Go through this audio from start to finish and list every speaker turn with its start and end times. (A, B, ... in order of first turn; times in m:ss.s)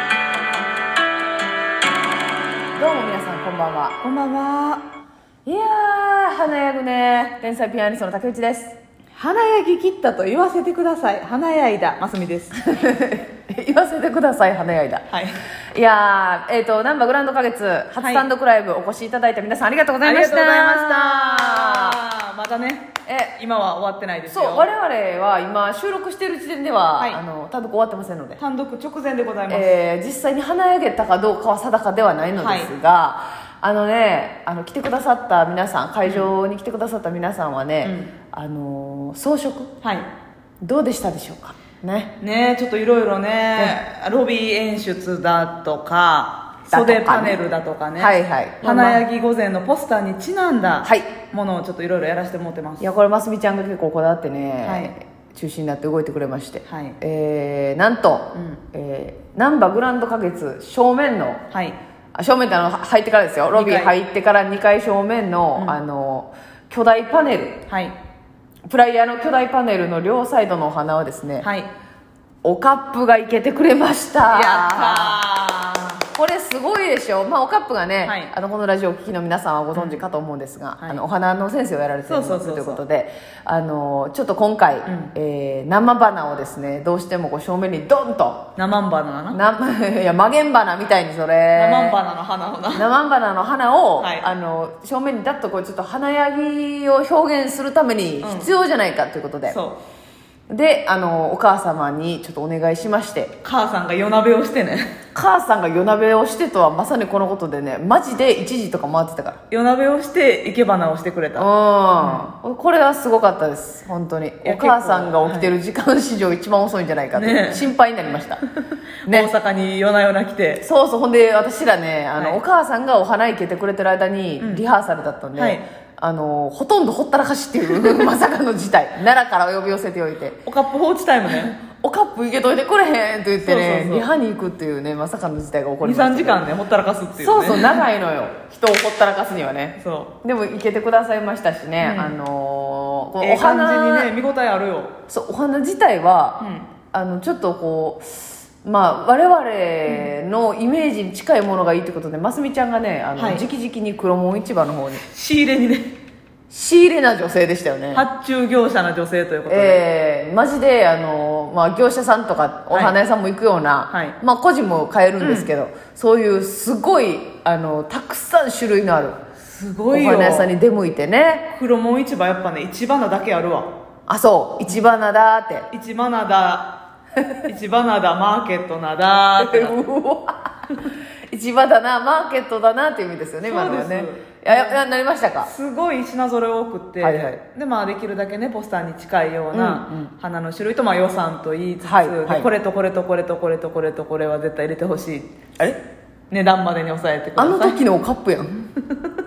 0:02.8-0:04.0 A
0:04.0-0:04.9 B
0:05.5-0:08.8 A
0:09.2-0:12.6 B
0:12.6-0:15.1 A
0:15.1-0:15.4 B
0:15.7-0:22.0 A
0:18.0-0:18.3 B
0:20.0-0:24.7 B
0:23.1-0:23.4 A
0:24.3-0:28.4 A
0:28.4-0:29.8 B
0:29.5-0:39.7 A
0:32.4-0:32.7 B
0:37.8-0:38.1 B
0:39.8-0:40.1 B
0:40.6-0:42.1 A
0:42.2-0:52.9 B
0:46.7-0:47.4 A
0:48.0-0:49.0 A
0:50.8-0:51.1 A
0:52.8-1:01.4 A
0:54.6-0:54.9 B
0:56.7-0:57.0 B
0:58.3-0:58.6 B
1:01.5-1:01.8 B
1:02.2-1:07.6 A
1:03.5-1:04.0 B
1:07.7-1:08.0 B
1:08.7-1:11.5 A
1:11.4-1:11.7 B
1:12.4-1:15.2 A
1:14.3-1:16.0 B
1:16.1-1:28.5 A
1:18.0-1:18.3 B
1:19.8-1:20.0 B
1:22.1-1:22.8 B
1:24.9-1:25.1 B
1:28.6-1:29.4 B
1:29.3-1:32.0 A
1:31.5-1:32.9 B
1:32.7-1:39.6 A
1:34.0-1:34.3 B
1:38.2-1:38.5 B
1:39.5-1:39.8 B
1:40.5-1:43.4 A
1:43.4-1:44.9 B
1:45.2-1:49.4 A
1:49.5-1:51.5 B
1:51.4-1:58.4 A
1:52.0-1:52.3 B
1:54.4-1:55.5 B
1:57.2-1:57.7 B
1:59.1-1:59.3 A
1:59.1-2:00.6 B
2:00.6-2:10.4 A
2:04.4-2:04.6 B
2:05.4-2:05.6 B
2:07.8-2:08.0 B
2:10.4-2:11.6 B
2:11.6-2:16.5 A
2:13.4-2:14.1 B
2:15.8-2:17.8 B
2:17.2-2:24.1 A
2:19.8-2:20.1 B
2:21.8-2:22.2 B
2:23.2-2:24.9 B
2:25.1-2:35.0 A
2:26.4-2:26.7 B
2:33.2-2:33.4 B
2:35.1-2:36.0 B
2:36.5-2:38.1 A
2:37.9-2:39.8 B
2:39.5-2:49.2 A
2:42.7-2:43.0 B
2:43.9-2:44.2 B
2:45.2-2:45.5 B
2:49.4-2:50.5 B
2:49.9-2:51.5 A
2:51.5-2:53.7 B
2:54.1-2:55.7 A
2:55.7-2:56.8 B
2:57.4-2:59.8 B
2:59.4-3:05.5 A
3:03.4-3:04.8 B
3:05.4-3:15.3 B
3:07.0-3:07.4 A
3:09.5-3:10.1 A
3:11.8-3:12.5 A
3:16.3-3:17.8 B
3:17.4-3:18.7 A